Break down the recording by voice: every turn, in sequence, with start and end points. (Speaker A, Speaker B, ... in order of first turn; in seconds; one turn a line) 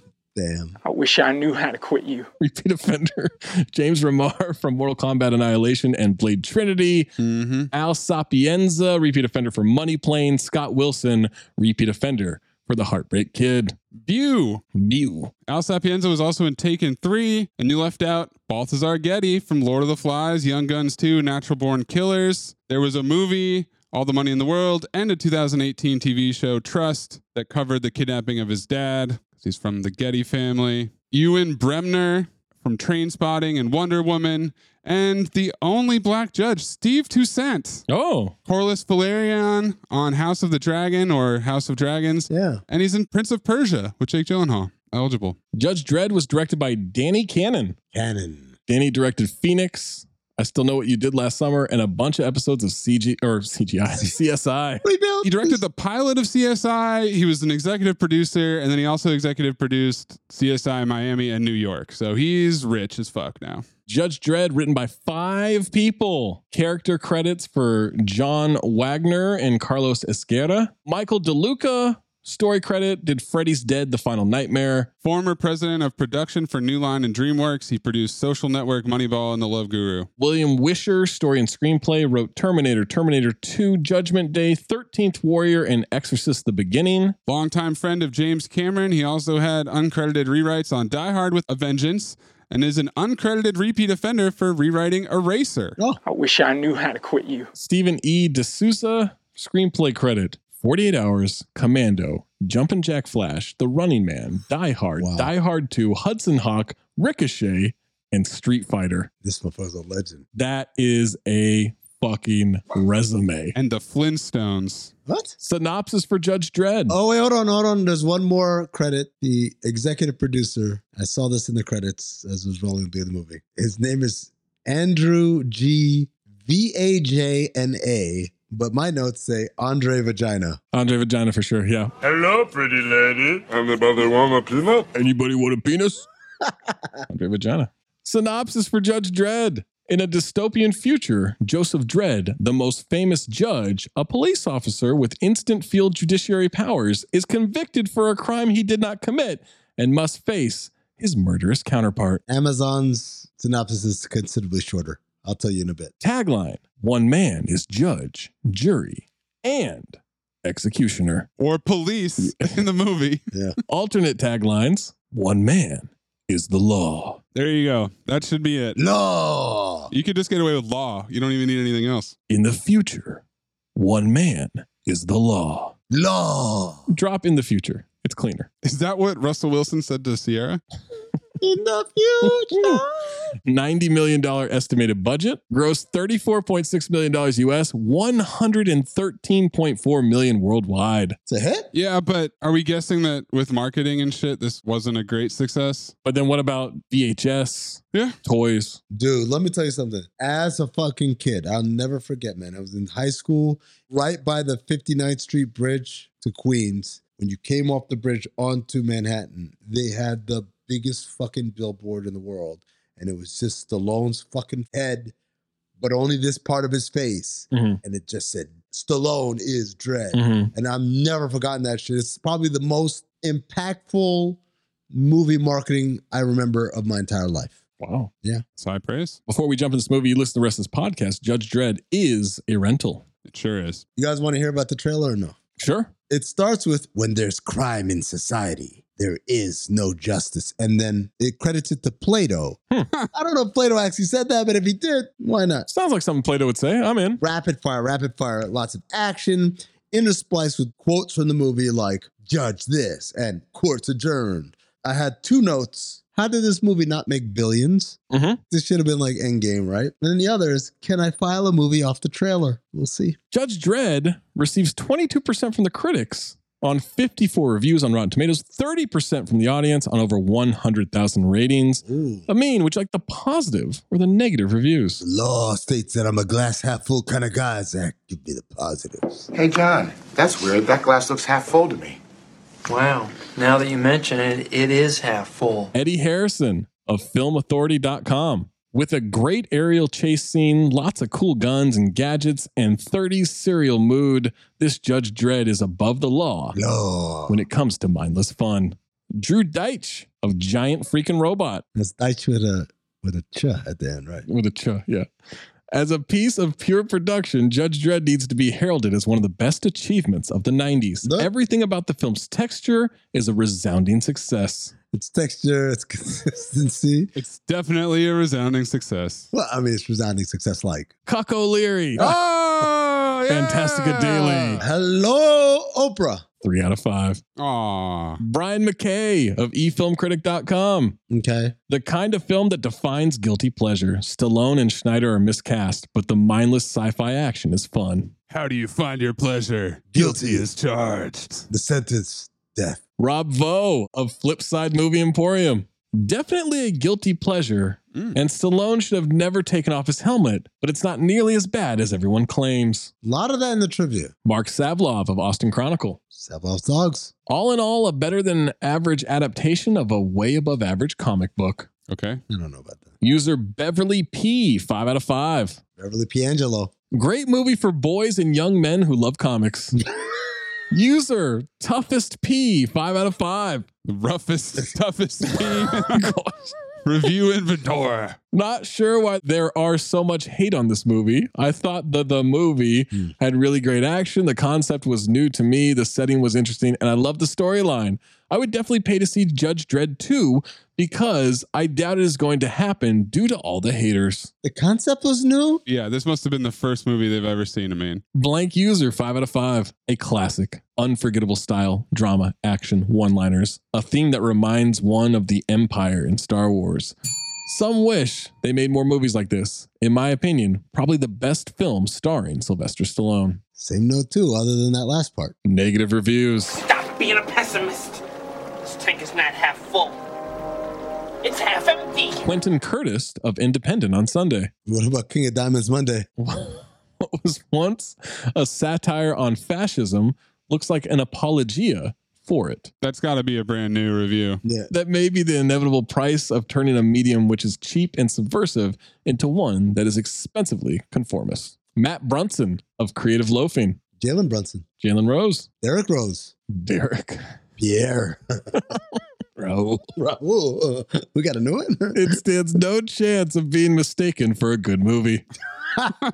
Speaker A: 0.3-0.8
Speaker B: 0.8-2.3
Speaker C: 2.4-7.1
Speaker D: 7.2-7.7
Speaker C: 7.7-13.8
Speaker D: 14.0-14.6
Speaker C: 14.7-15.3
Speaker D: 15.5-37.8
Speaker C: 37.9-38.4
Speaker D: 38.5-45.4
Speaker A: 42.3-42.6
Speaker C: 45.5-47.8
Speaker A: 47.9-48.5
Speaker C: 48.7-54.8
Speaker A: 54.8-55.6
Speaker D: 55.2-63.6
Speaker C: 63.9-74.9
Speaker D: 75.0-80.1
Speaker C: 80.2-87.2
Speaker D: 87.3-95.8
Speaker B: 96.0-97.5
Speaker C: 97.5-109.1
Speaker A: 105.0-105.3
Speaker A: 109.2-110.2
Speaker C: 110.3-113.5
Speaker D: 113.5-114.9
Speaker A: 115.1-115.3
Speaker C: 115.4-117.0
Speaker A: 116.9-130.6
Speaker C: 130.7-131.9
Speaker E: 132.0-134.9
Speaker C: 134.9-136.1
Speaker C: 137.1-152.2
Speaker A: 152.3-155.9
Speaker C: 156.0-161.3
Speaker D: 161.4-163.2
Speaker C: 162.2-162.6
Speaker C: 163.7-167.2
Speaker D: 167.3-168.8
Speaker A: 168.8-169.9
Speaker D: 169.9-172.1
Speaker C: 172.3-173.2
Speaker C: 173.8-175.7
Speaker A: 175.9-176.8
Speaker C: 176.9-178.5
Speaker D: 178.6-180.6
Speaker A: 181.4-182.9
Speaker C: 182.2-182.8
Speaker C: 183.5-191.2
Speaker A: 191.3-191.7
Speaker D: 191.7-195.9
Speaker C: 196.0-198.8
Speaker A: 198.9-215.1
Speaker A: 215.8-224.4
Speaker C: 217.5-217.8
Speaker C: 220.1-220.5
Speaker A: 224.9-227.6
Speaker C: 227.8-228.1
Speaker D: 228.6-229.2
Speaker C: 229.3-233.0
Speaker D: 233.3-233.8
Speaker A: 234.0-235.4
Speaker C: 235.6-235.9
Speaker A: 236.1-242.6
Speaker A: 243.1-245.7
Speaker C: 245.7-247.2
Speaker A: 247.2-258.0
Speaker C: 258.1-258.4
Speaker A: 258.5-263.2
Speaker C: 263.3-275.0
Speaker A: 271.9-272.3
Speaker A: 275.0-279.3
Speaker F: 279.3-282.0
Speaker G: 282.7-285.7
Speaker C: 285.7-296.6
Speaker A: 296.5-297.4
Speaker C: 297.3-301.6
Speaker A: 301.8-304.2
Speaker C: 304.2-305.1
Speaker C: 305.7-314.7
Speaker A: 311.0-311.3
Speaker A: 314.9-317.1
Speaker D: 317.2-319.3
Speaker A: 319.3-320.9
Speaker C: 321.1-322.1
Speaker D: 322.0-324.6
Speaker C: 323.3-324.6
Speaker A: 324.6-326.2
Speaker C: 326.4-327.2
Speaker D: 327.4-328.2
Speaker C: 328.2-331.0
Speaker A: 331.1-331.6
Speaker C: 331.7-338.1
Speaker D: 338.3-341.4
Speaker A: 339.9-340.5
Speaker A: 341.5-342.8
Speaker C: 343.0-352.9
Speaker A: 353.0-354.1
Speaker C: 354.2-356.0
Speaker A: 356.1-357.1
Speaker C: 357.3-361.7
Speaker D: 361.9-362.2
Speaker A: 362.3-362.9
Speaker C: 363.0-365.6
Speaker A: 365.8-366.7
Speaker C: 366.9-369.8
Speaker C: 370.7-373.7
Speaker D: 373.9-376.0
Speaker C: 375.9-376.6
Speaker D: 376.8-378.2
Speaker C: 378.3-394.3
Speaker A: 394.4-395.6
Speaker D: 395.7-398.0
Speaker C: 398.1-406.9
Speaker C: 407.5-413.4
Speaker A: 413.6-415.4
Speaker C: 415.4-416.6
Speaker H: 416.6-418.0
Speaker H: 418.6-420.0
Speaker H: 421.2-422.2
Speaker C: 422.2-424.5
Speaker A: 424.7-426.1
Speaker C: 426.2-432.7
Speaker D: 432.8-434.4
Speaker A: 434.4-434.7
Speaker C: 434.7-443.8
Speaker A: 444.0-444.6
Speaker C: 444.8-445.5
Speaker A: 445.6-446.3
Speaker C: 446.5-447.2
Speaker A: 447.6-448.2
Speaker C: 449.4-449.9
Speaker A: 450.0-452.0
Speaker C: 451.9-455.2